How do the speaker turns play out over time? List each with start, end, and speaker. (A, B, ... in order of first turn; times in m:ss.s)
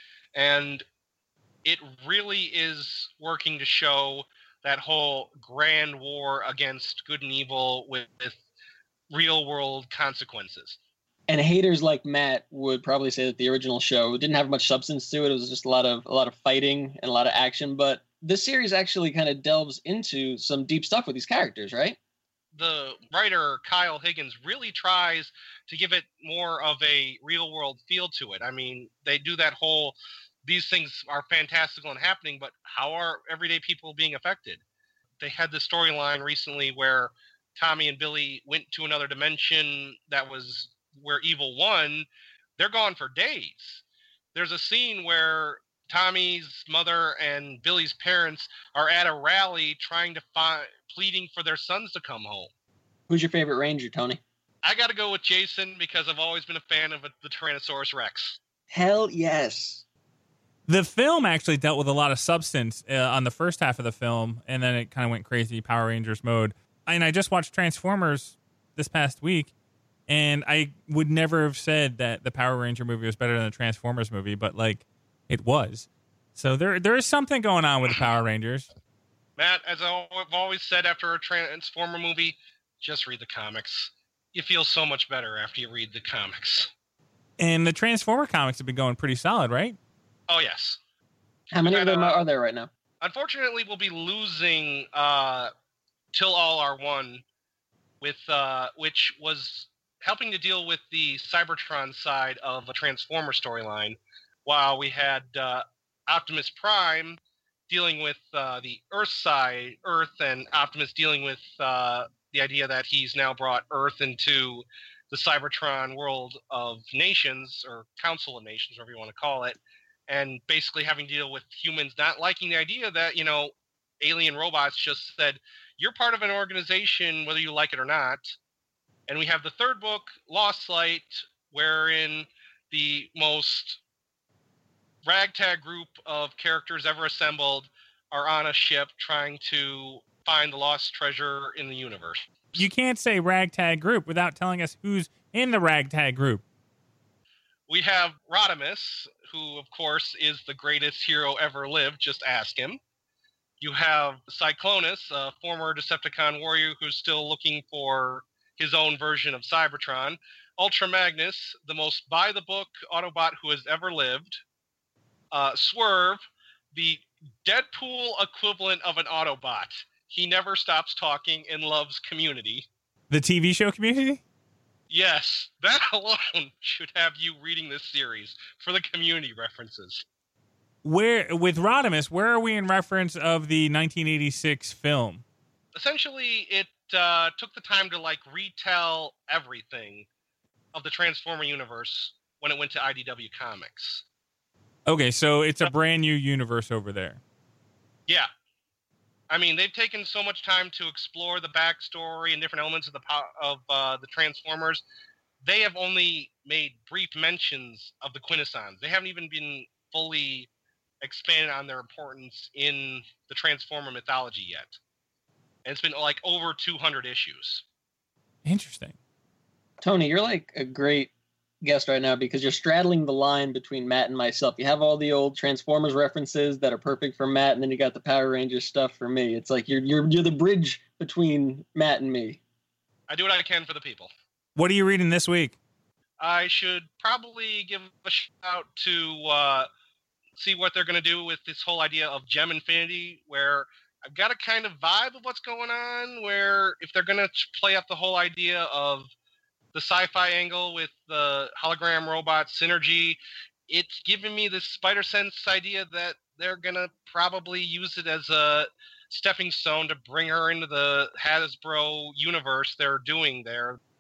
0:00.4-0:00.8 A
0:01.6-0:08.4 A
0:09.1-0:10.8 A
0:11.3-0:22.0 B
0:22.6-0:34.6 A
0:35.2-0:42.1 A
0:42.6-0:43.8 A
0:44.3-0:52.5 A
0:53.1-0:54.2 B
0:54.6-0:58.4 A
0:58.7-0:59.8 B
1:00.7-1:09.5 C
1:10.1-1:18.7 C
1:19.4-1:26.7 A
1:27.4-1:29.8 C
1:30.3-1:30.8 A
1:31.5-1:32.7 B
1:31.6-1:32.2 A
1:33.0-1:35.5 A
1:36.1-1:37.2 A
1:38.0-2:08.2 A
2:09.1-2:13.8 A
2:15.0-2:22.6 A
2:22.6-2:26.4 C
2:27.7-2:32.8 A
2:33.6-2:44.4 A
2:45.3-2:46.2 A
2:46.7-2:52.7 A
2:53.1-2:54.2 C
2:54.9-3:00.0 A
3:00.8-3:05.2 C
3:05.8-3:10.1 A
3:10.7-3:14.0 A
3:14.9-3:17.2 C
3:19.3-3:24.8 A
3:25.4-3:30.5 A
3:31.0-3:34.8 A
3:35.6-3:37.6 A
3:38.4-3:39.0 C
3:39.8-3:41.1 B
3:41.6-3:52.4 B
3:53.1-3:54.1 A
3:54.6-3:55.6 C
3:56.2-3:59.7 A
4:00.4-4:09.1 A
4:09.7-4:23.8 A